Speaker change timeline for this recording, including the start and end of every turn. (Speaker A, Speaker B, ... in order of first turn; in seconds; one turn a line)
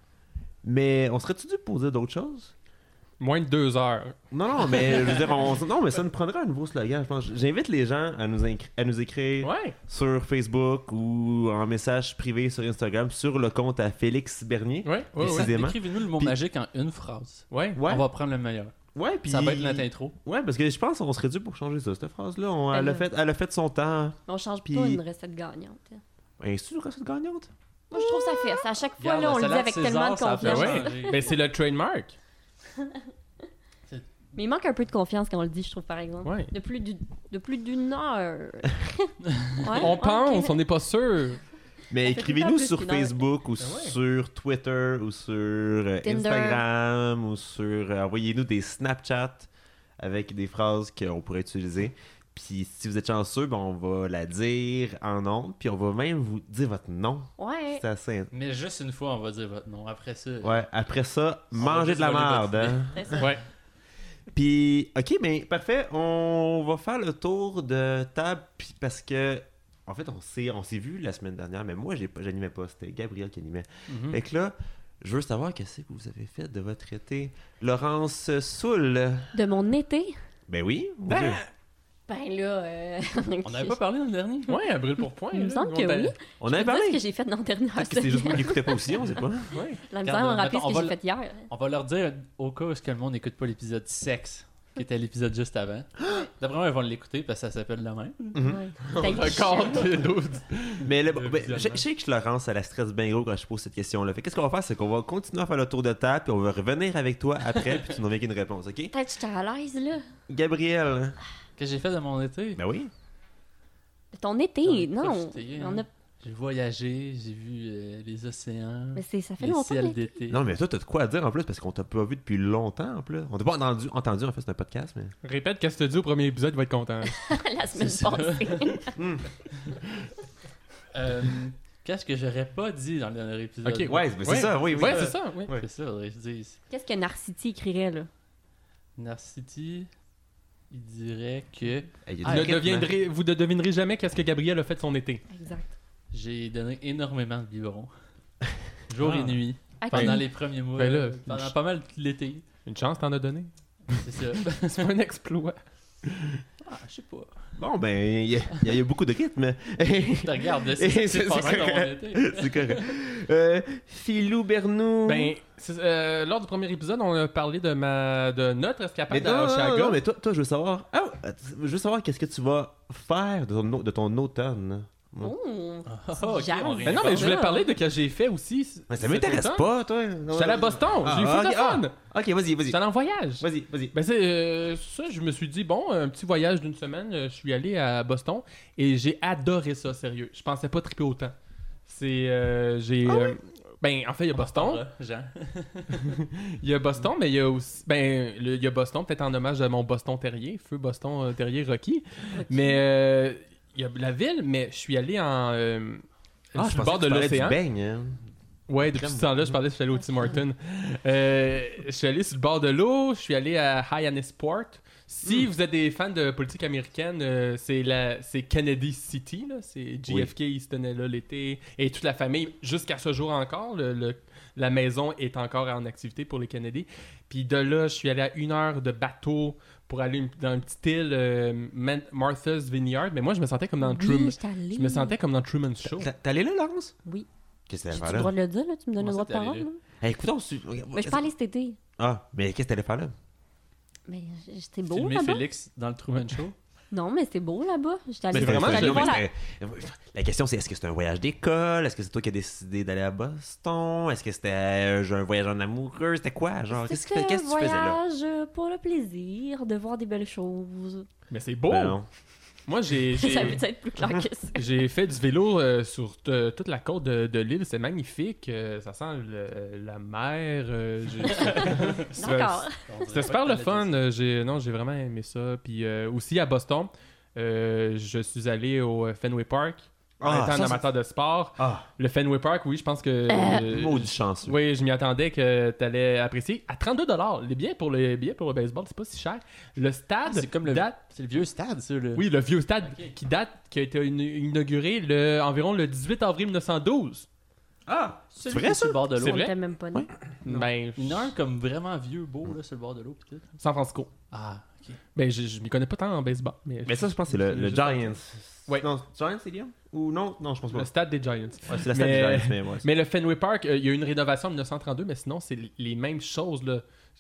Speaker A: 0.6-2.5
Speaker B: 3.2-4.2
Speaker A: 4.3-16.4
Speaker B: 9.4-9.8
Speaker B: 14.8-15.5
Speaker C: 15.2-18.7
Speaker B: 17.5-17.8
Speaker A: 17.8-18.1
Speaker A: 18.9-25.0
Speaker C: 19.2-20.2
Speaker D: 22.7-23.1
Speaker D: 24.3-26.0
Speaker A: 26.4-27.5
Speaker D: 27.9-31.2
Speaker C: 29.0-31.4
Speaker B: 30.4-32.2
Speaker D: 34.4-40.6
Speaker B: 36.2-36.5
Speaker B: 39.7-41.4
Speaker A: 41.9-58.3
Speaker D: 42.0-43.2
Speaker B: 43.6-44.0
Speaker D: 46.0-46.6
Speaker D: 57.4-57.8
Speaker C: 58.3-60.7
Speaker A: 60.4-63.3
Speaker C: 61.5-63.2
Speaker B: 63.2-63.4
Speaker A: 64.3-79.3
Speaker C: 73.9-74.2
Speaker D: 79.3-80.2
Speaker A: 80.5-81.4
Speaker B: 81.1-81.4
Speaker D: 82.1-83.8
Speaker C: 83.4-84.6
Speaker B: 84.5-86.2
Speaker D: 85.3-89.1
Speaker A: 86.4-87.0
Speaker A: 87.8-89.5
Speaker B: 89.5-89.8
Speaker D: 89.9-91.5
Speaker C: 90.0-98.4
Speaker A: 98.3-98.6
Speaker D: 98.4-100.0
Speaker B: 98.9-101.8
Speaker A: 100.8-108.9
Speaker C: 107.6-107.9
Speaker D: 108.9-110.0
Speaker A: 110.3-111.2
Speaker C: 111.6-112.6
Speaker A: 112.6-112.9
Speaker D: 114.1-115.9
Speaker C: 114.6-120.5
Speaker D: 119.0-120.1
Speaker A: 120.3-125.2
Speaker B: 125.2-127.3
Speaker D: 127.0-128.9
Speaker C: 127.8-128.8
Speaker A: 129.0-129.3
Speaker A: 129.8-130.1
Speaker C: 130.9-136.6
Speaker B: 133.7-135.5
Speaker A: 133.8-135.7
Speaker D: 136.7-138.1
Speaker C: 139.0-139.9
Speaker C: 140.7-142.5
Speaker A: 142.1-142.9
Speaker B: 142.2-145.2
Speaker D: 145.3-145.7
Speaker C: 146.1-147.9
Speaker C: 148.9-152.5
Speaker B: 149.0-151.5
Speaker D: 149.8-150.2
Speaker B: 152.7-154.0
Speaker C: 153.9-154.9
Speaker B: 154.6-155.6
Speaker C: 156.6-157.6
Speaker A: 157.6-165.3
Speaker C: 160.2-162.9
Speaker B: 165.1-170.0
Speaker A: 169.1-175.3
Speaker D: 175.2-177.7
Speaker C: 175.9-177.5
Speaker B: 176.8-179.7
Speaker A: 178.9-182.8
Speaker B: 180.3-181.9
Speaker B: 182.7-191.3
Speaker A: 183.4-183.9
Speaker B: 191.9-194.8
Speaker C: 194.3-196.2
Speaker B: 196.0-207.6
Speaker D: 202.3-202.8
Speaker A: 206.6-208.2
Speaker B: 208.7-236.1
Speaker A: 208.9-209.6
Speaker D: 233.8-235.2
Speaker A: 235.8-236.9
Speaker A: 237.7-238.3
Speaker D: 237.9-239.8
Speaker C: 239.0-239.7
Speaker A: 240.0-241.3
Speaker D: 240.9-241.8
Speaker A: 242.0-243.1
Speaker D: 244.1-245.4
Speaker C: 244.9-246.5
Speaker D: 246.9-249.2
Speaker B: 248.3-249.2
Speaker A: 248.3-258.0
Speaker D: 256.7-261.1
Speaker B: 261.3-262.0
Speaker A: 261.7-262.1
Speaker B: 262.6-263.6
Speaker D: 263.1-264.6
Speaker B: 264.5-290.9
Speaker D: 271.3-272.8
Speaker C: 271.3-271.9
Speaker C: 272.8-274.0
Speaker A: 280.2-280.8
Speaker A: 281.6-281.9
Speaker D: 283.3-283.6
Speaker A: 283.5-284.6
Speaker C: 290.2-292.3
Speaker B: 292.1-297.3
Speaker C: 292.8-293.1
Speaker A: 297.9-299.1
Speaker C: 298.3-299.5
Speaker B: 299.2-299.6
Speaker D: 299.2-300.1
Speaker B: 300.4-301.3
Speaker C: 301.0-303.5
Speaker B: 303.6-304.1
Speaker C: 304.3-305.0
Speaker B: 305.1-307.1
Speaker A: 306.9-310.9
Speaker C: 307.4-308.0
Speaker B: 310.7-316.8
Speaker A: 311.7-312.9